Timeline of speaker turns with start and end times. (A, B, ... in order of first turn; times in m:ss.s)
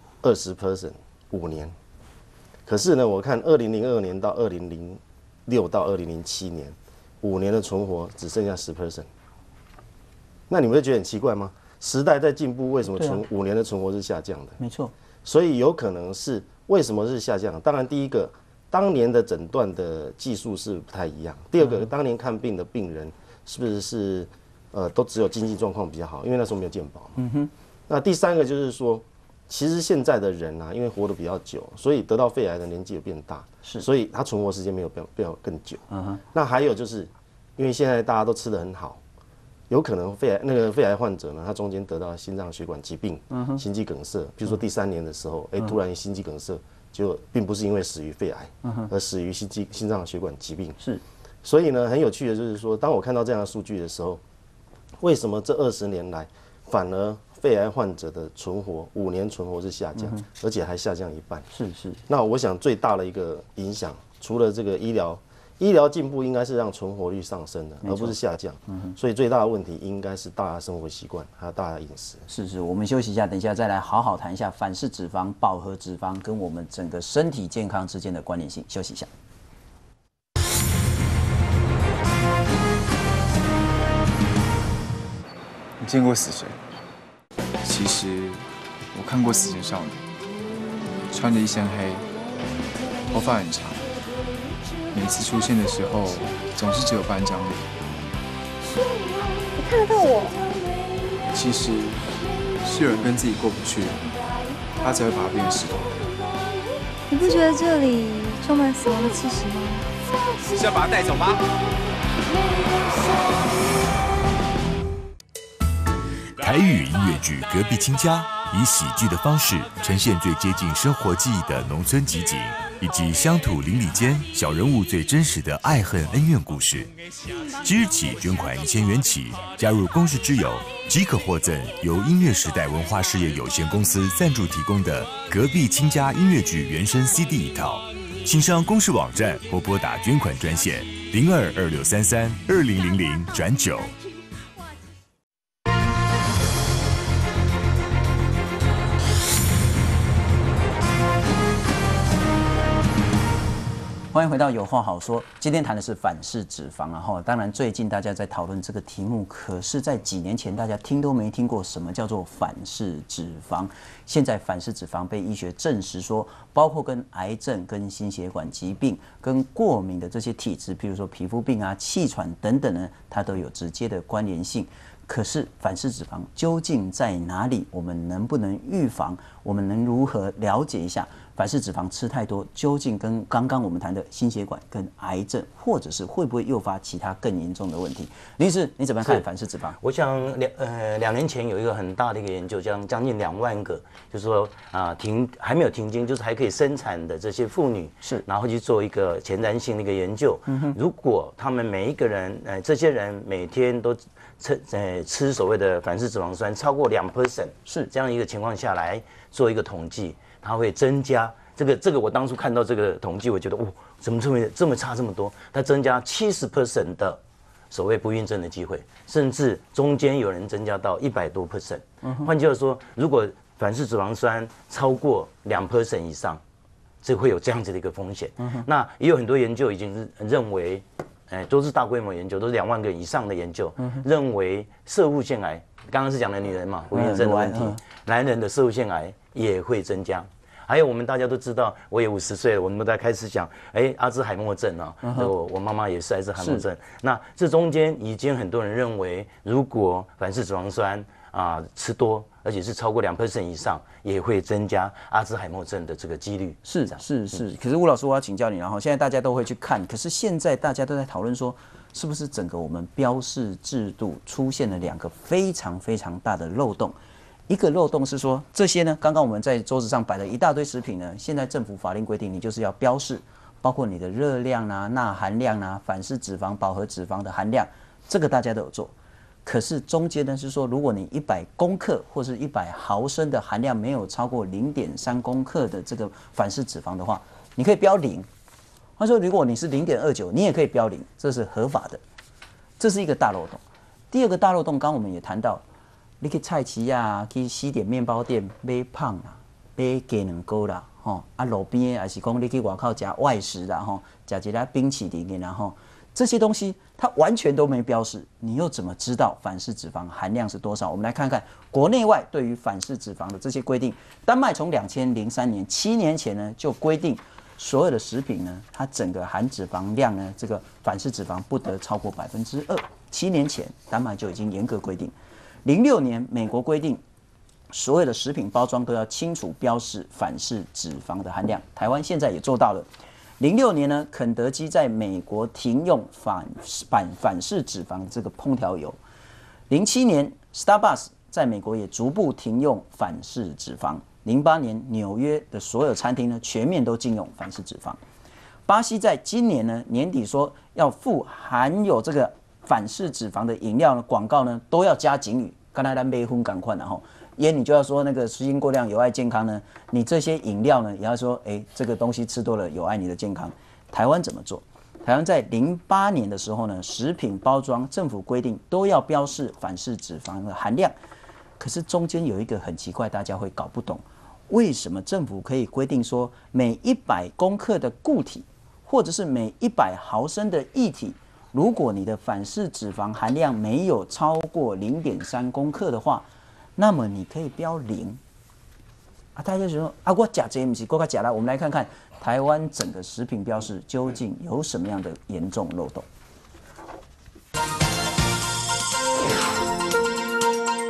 0:00.2-0:01.7 A
0:02.7-0:09.1 A
0:10.5-0:14.6 A
0:12.9-0:13.2 B
0:14.6-0:14.9 B
0:15.2-0:27.2 A
0:27.2-0:27.5 B
0:27.9-0:35.8 A
0:35.9-0:36.2 B
0:36.3-0:39.0 A
0:39.7-0:50.8 A
0:43.3-0:43.6 B
0:51.4-0:54.2 A
0:55.0-1:01.5 A
1:01.5-1:02.0 B
1:02.1-1:12.2 A
1:07.8-1:08.1 B
1:08.7-1:08.9 B
1:12.3-1:19.1 B
1:25.8-1:26.6 C
1:27.6-1:30.0 C
1:31.1-1:32.1 C
1:33.1-1:33.9 C
1:34.9-1:38.1 C
1:39.5-1:40.4 D
1:41.2-1:44.0 C
1:44.8-1:46.0 C
1:47.1-1:49.9 D
1:56.4-2:06.9 E
2:07.6-2:23.9 E
2:34.1-3:09.8 B
3:09.8-3:37.2 F
3:20.5-3:20.8 B
3:37.7-3:46.4 F
3:47.0-4:17.3 F
3:56.9-3:57.8 B
4:05.0-4:05.3 B
4:06.4-4:06.6 B
4:16.6-4:27.0 B
4:27.5-4:38.9 B
4:39.4-4:48.3 B
4:49.0-4:52.0 B
4:52.8-4:55.6 B
4:56.2-5:25.1 B
5:25.6-5:27.0 B
5:27.7-5:32.9 B
5:33.4-5:39.0 B
5:39.7-5:48.0 B
5:48.7-6:10.9 B
6:11.6-6:26.2 B
6:26.8-6:28.2 B
6:29.3-6:36.0 B